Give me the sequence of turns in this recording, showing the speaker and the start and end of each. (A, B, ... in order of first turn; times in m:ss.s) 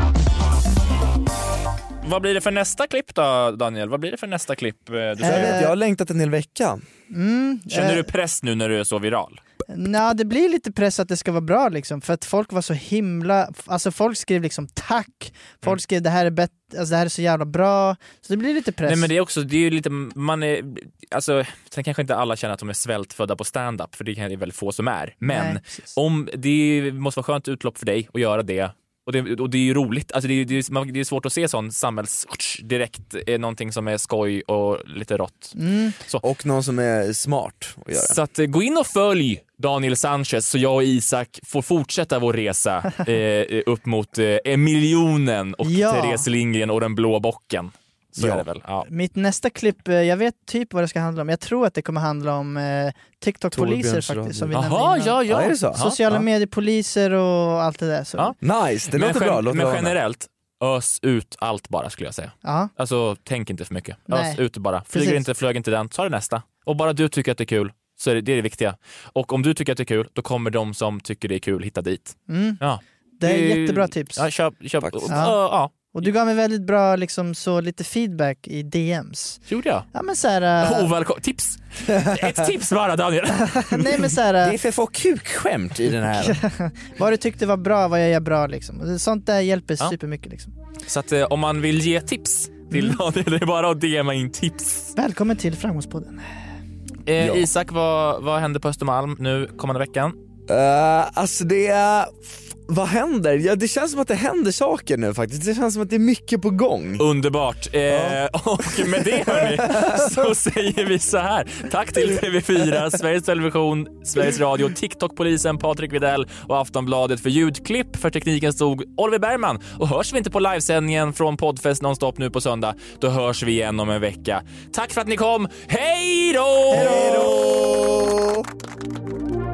0:02.0-0:05.7 A
0:05.2-0:05.7 B
0:05.2-0:06.8 C
0:07.1-0:08.1 B
0:07.7-0:09.4 A
0:09.7-0:19.1 B
0:18.9-0:35.6 A
0:25.2-0:25.6 B
0:35.6-0:36.0 B
0:36.2-0:38.2 C
0:37.9-0:48.9 A
0:45.6-0:46.2 B
0:48.2-0:48.5 C
0:48.9-0:58.3 B
0:53.5-0:54.6 C
0:54.5-0:56.2 A
0:55.2-0:55.9 C
0:58.4-1:00.0 C
0:58.9-1:15.9 A
1:02.4-1:02.7 B
1:04.1-1:04.4 B
1:04.9-1:05.2 B
1:12.3-1:12.6 B
1:13.2-1:14.2 B
1:14.8-1:15.1 C
1:15.1-1:19.4 B
1:19.5-1:19.9 A
1:19.9-1:20.9 B
1:20.6-1:24.1 A
1:21.9-1:22.3 C
1:23.4-1:24.6 B
1:24.4-1:26.4 C
1:26.2-1:30.5 B
1:30.9-1:34.9 A
1:35.0-1:36.3 B
1:37.1-1:40.2 A
1:37.2-1:37.5 C
1:40.5-1:47.0 C
1:47.0-2:07.7 A
1:47.9-1:50.3 C
2:06.7-2:08.4 C
2:06.8-2:07.4 B